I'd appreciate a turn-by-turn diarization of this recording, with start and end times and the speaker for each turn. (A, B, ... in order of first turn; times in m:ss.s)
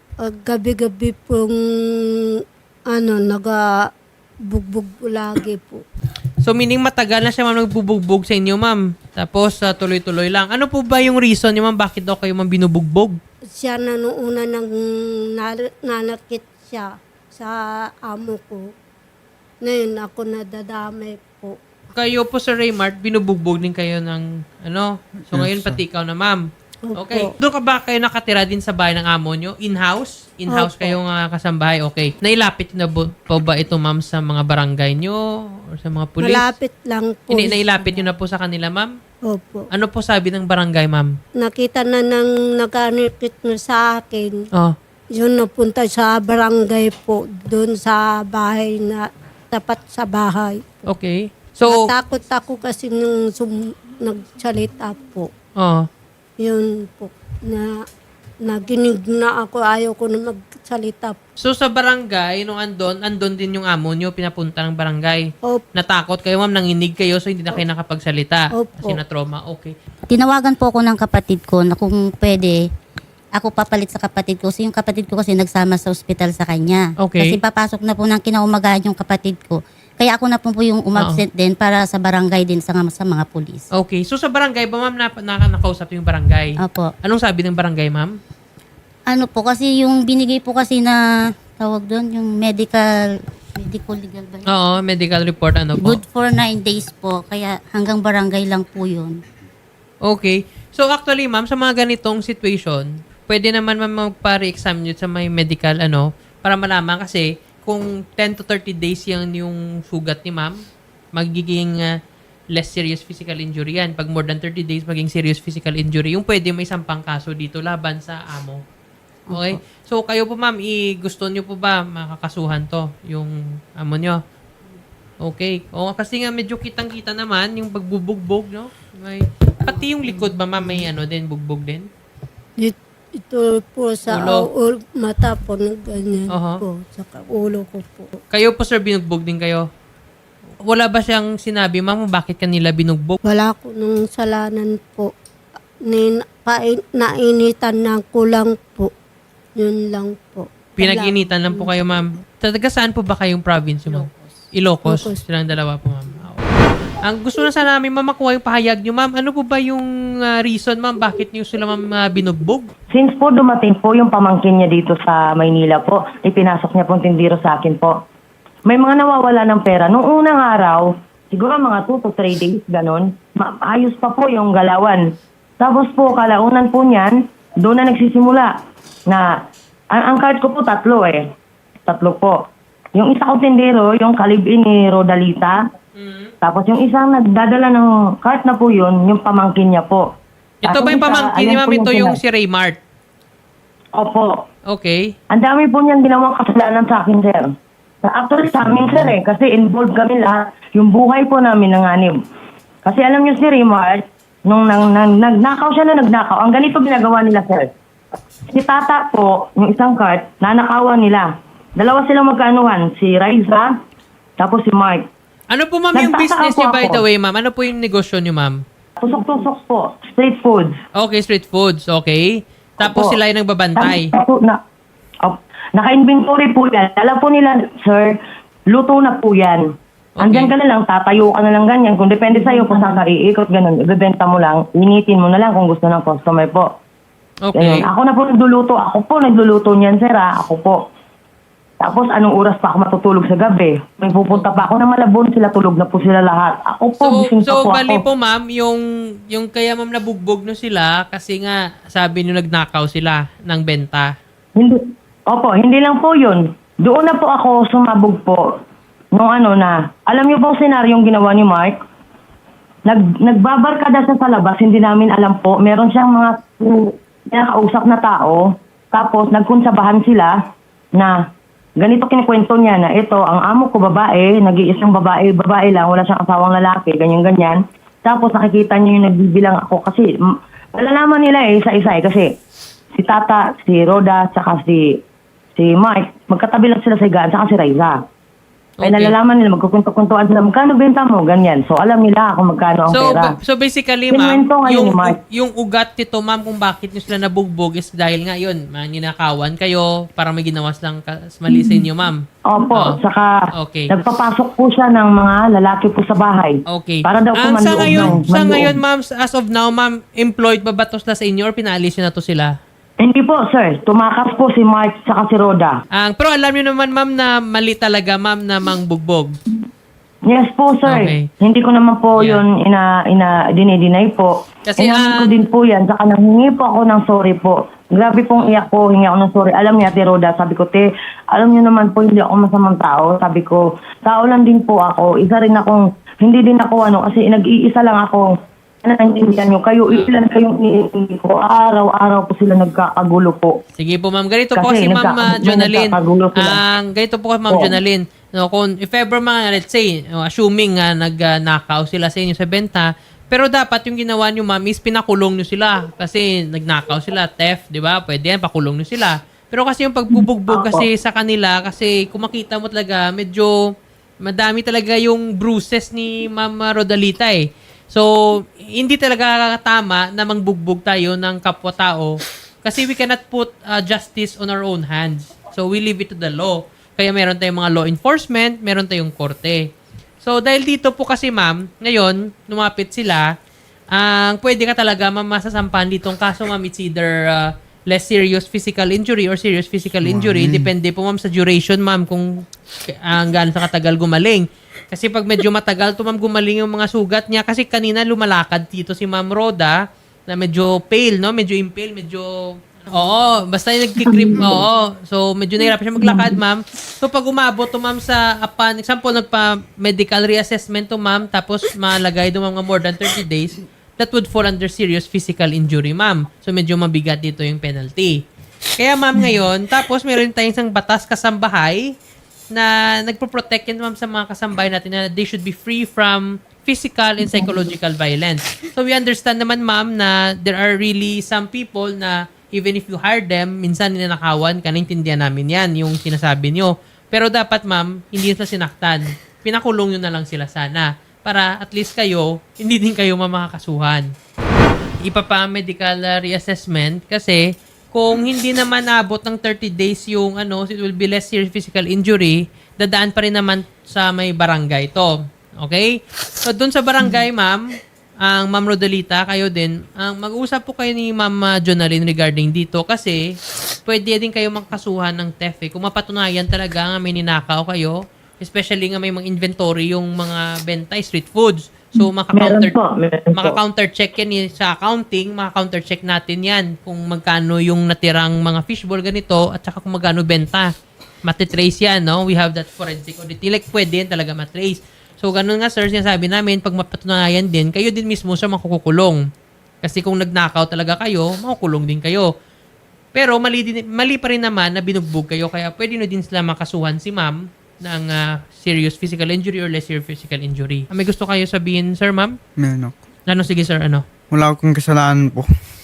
0:00.2-0:01.6 A
0:02.9-0:03.6 A
0:04.5-0:05.8 A
0:06.4-0:13.2 B
0:13.6-0:14.7 A
0:15.4-0:18.6 A
0:19.6-0:21.6 A
0:21.9-0:26.4 B
0:25.3-0:25.8 C
0:26.8-0:27.3 A
0:27.0-0:35.2 B
0:30.5-0:31.0 A
0:35.8-0:36.5 B
0:36.2-0:38.0 A
0:37.3-0:38.9 B
0:39.3-0:39.7 A
0:39.7-0:41.1 B
0:41.4-0:44.4 A
0:45.1-0:50.8 A
0:50.9-0:51.8 B
0:51.6-0:55.3 A
0:55.6-0:55.8 B
0:56.4-0:57.7 A
0:58.4-1:01.2 A
1:01.4-1:09.7 B
1:08.5-1:09.0 A
1:10.1-1:12.6 D
1:13.3-1:23.6 D
1:17.0-1:17.4 B
1:21.0-1:21.2 B
1:23.7-1:28.1 B
1:26.6-1:26.9 D
1:29.1-1:31.0 D
1:31.6-1:32.8 D
1:33.6-1:34.4 D
1:34.5-1:36.0 B
1:35.8-1:39.2 D
1:40.0-1:50.6 B
1:51.1-1:51.9 B
1:52.5-1:58.6 B
1:59.3-1:59.5 D
1:59.3-2:04.2 B
2:05.2-2:11.8 B
2:12.6-2:18.2 A
2:14.1-2:14.4 B
2:16.3-2:16.6 B
2:18.3-2:19.6 B
2:20.6-2:23.2 B
2:23.2-2:25.1 A
2:25.9-2:28.9 A
2:29.6-2:31.7 A
2:30.8-2:36.4 B
2:34.8-2:35.2 A
2:37.0-2:42.7 B
2:42.9-2:47.9 E
2:48.7-2:55.0 E
2:55.6-2:58.5 E
2:59.9-3:01.2 E
3:01.9-3:02.4 E
3:02.9-3:05.6 E
3:06.0-3:06.3 B
3:06.4-3:10.0 E
3:10.6-3:12.8 B
3:10.7-3:12.2 E
3:13.9-3:14.4 E
3:14.7-3:15.1 B
3:15.3-3:17.4 E
3:18.0-3:22.1 E
3:22.8-3:27.7 E
3:28.5-3:33.7 E
3:34.4-3:35.0 E
3:35.5-3:38.6 B
3:35.9-3:37.0 E
3:39.0-3:40.7 E
3:40.9-3:44.1 B
3:42.8-3:43.2 E
3:43.8-3:44.6 E
3:45.2-3:48.2 E
3:48.7-3:49.6 E
3:50.2-3:50.5 B
3:50.2-3:56.7 E
3:57.4-3:57.8 B
3:57.5-4:00.8 E
4:01.8-4:08.0 E
4:04.3-4:04.6 B
4:07.0-4:14.1 B
4:14.6-4:18.4 E
4:19.1-4:21.7 E
4:22.9-4:30.3 E
4:31.8-4:42.3 E
4:43.0-4:44.8 E
4:45.6-4:48.0 E
4:48.8-4:49.1 B
4:48.8-4:53.3 E
4:52.9-5:02.2 B
4:54.1-4:55.2 E
5:01.5-5:01.8 E
5:02.5-5:03.3 E
5:03.5-5:03.9 B
5:03.9-5:08.8 E
5:06.7-5:12.5 B
5:13.0-5:15.8 E
5:15.9-5:19.3 B
5:20.2-5:38.3 E
5:20.9-5:21.3 B
5:24.7-5:25.3 B
5:38.8-5:43.6 E
5:39.9-5:40.1 B
5:43.8-6:03.5 B
5:44.5-5:46.6 E
6:00.1-6:00.9 E
6:04.2-6:07.4 B
6:08.8-6:19.6 B
6:20.2-6:23.2 B
6:23.9-6:32.3 B
6:30.0-6:30.7 C
6:33.0-6:39.7 B
6:40.3-6:42.3 B
6:42.9-6:58.2 B
6:44.0-6:44.6 E
6:46.0-6:46.3 E
6:58.8-7:01.8 B
7:02.5-7:24.1 B
7:25.0-7:27.4 B
7:27.9-7:35.9 B
7:36.4-7:37.6 B
7:38.2-7:43.2 B
7:43.9-7:52.7 B
7:52.3-7:53.6 E
7:53.3-8:00.7 B
8:01.2-8:09.2 B
8:09.8-8:12.3 B
8:13.1-8:22.3 B
8:22.6-8:22.9 C
8:23.3-8:24.0 B
8:24.3-8:25.5 C